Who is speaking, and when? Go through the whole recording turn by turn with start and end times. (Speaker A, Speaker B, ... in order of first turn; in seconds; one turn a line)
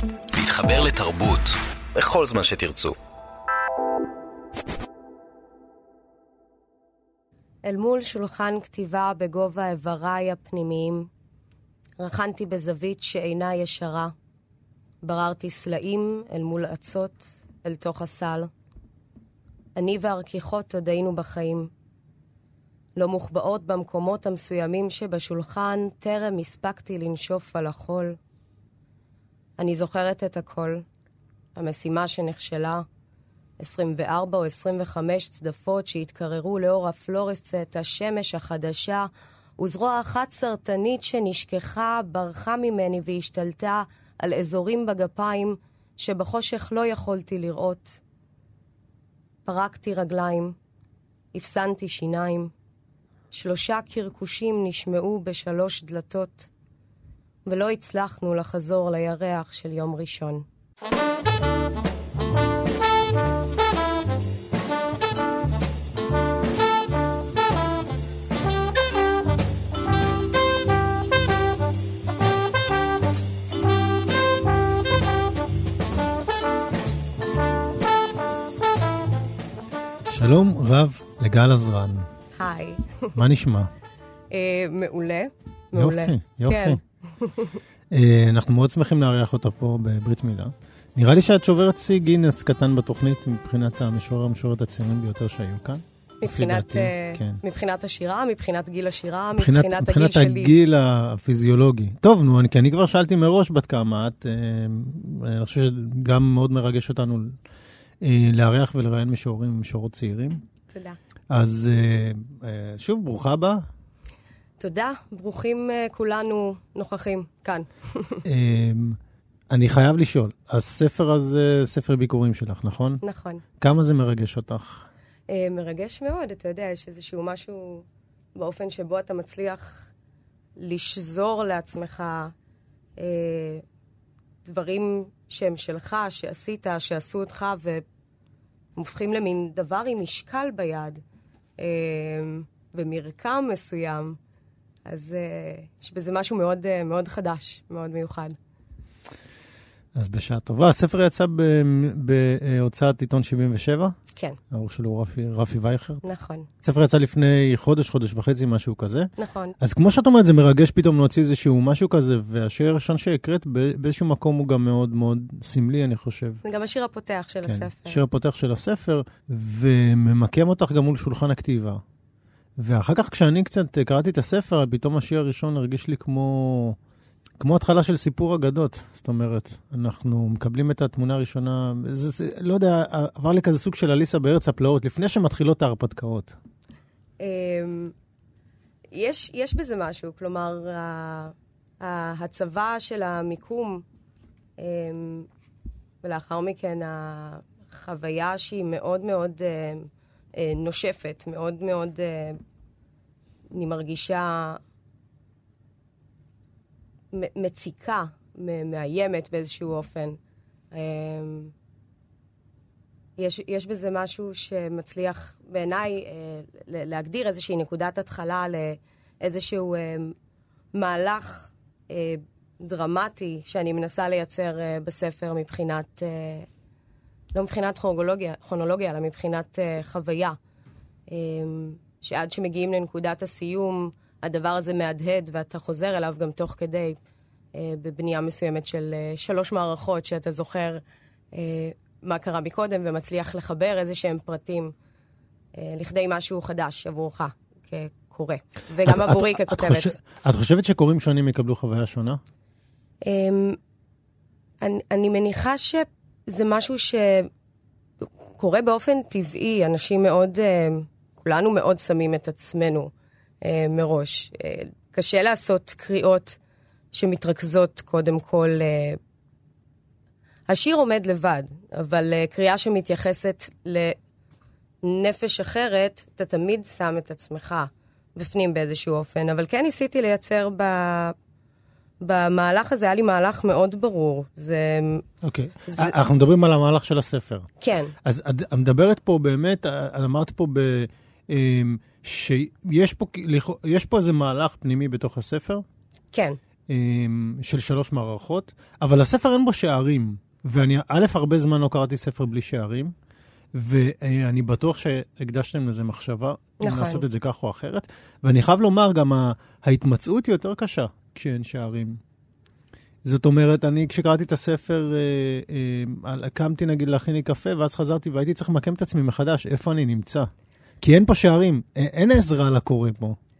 Speaker A: 0.3-2.9
Speaker B: 7.6-11.1
Speaker B: 12.0-14.1
Speaker B: 15.0-18.5
Speaker B: 19.8-21.7
Speaker B: 23.0-28.2
Speaker B: 29.6-30.8
Speaker B: 31.6-32.9
Speaker B: 33.6-48.0
Speaker B: 49.5-50.5
Speaker B: 51.3-52.5
Speaker B: 53.3-56.5
Speaker B: 57.5-60.5
Speaker C: 80.1-82.1
Speaker B: 82.4-83.1
Speaker C: 83.1-83.7
Speaker B: 84.3-87.6
Speaker C: 85.7-86.8
Speaker C: 87.9-97.4
Speaker B: 96.2-100.5
Speaker C: 99.4-107.3
Speaker C: 108.0-110.4
Speaker B: 110.7-111.0
Speaker C: 111.3-113.7
Speaker B: 114.6-118.2
Speaker C: 118.2-119.0
Speaker C: 119.5-123.0
Speaker B: 123.0-123.4
Speaker C: 123.6-124.8
Speaker B: 125.3-129.9
Speaker B: 130.6-132.3
Speaker B: 133.0-133.6
Speaker B: 134.4-137.8
Speaker B: 138.8-141.0
Speaker B: 141.6-144.2
Speaker B: 144.9-148.3
Speaker C: 149.9-153.9
Speaker C: 154.5-156.0
Speaker B: 156.0-156.5
Speaker C: 156.6-166.4
Speaker B: 159.2-159.5
Speaker B: 166.4-168.0
Speaker C: 167.5-171.8
Speaker C: 172.6-176.8
Speaker C: 177.4-186.3
Speaker B: 187.2-187.9
Speaker B: 188.9-193.8
Speaker B: 194.6-195.3
Speaker B: 196.0-202.4
Speaker B: 203.5-204.6
Speaker B: 207.1-210.2
Speaker B: 210.7-211.5
Speaker B: 213.2-220.1
Speaker B: 220.7-226.5
Speaker B: 227.3-230.4
Speaker B: 231.1-237.0
Speaker B: 237.5-240.8
Speaker B: 241.3-244.7
Speaker B: 245.6-249.9
Speaker C: 248.8-252.2
Speaker B: 253.0-253.6
Speaker B: 254.6-257.3
Speaker B: 258.4-262.9
Speaker B: 263.4-266.4
Speaker B: 266.9-269.0
Speaker B: 270.5-273.9
Speaker B: 274.8-281.1
Speaker B: 282.0-285.0
Speaker C: 285.2-287.5
Speaker B: 285.7-285.9
Speaker B: 287.6-287.9
Speaker C: 288.0-295.6
Speaker B: 296.1-296.4
Speaker C: 296.7-302.9
Speaker C: 303.5-312.0
Speaker B: 306.6-307.0
Speaker C: 313.0-320.3
Speaker C: 320.8-323.2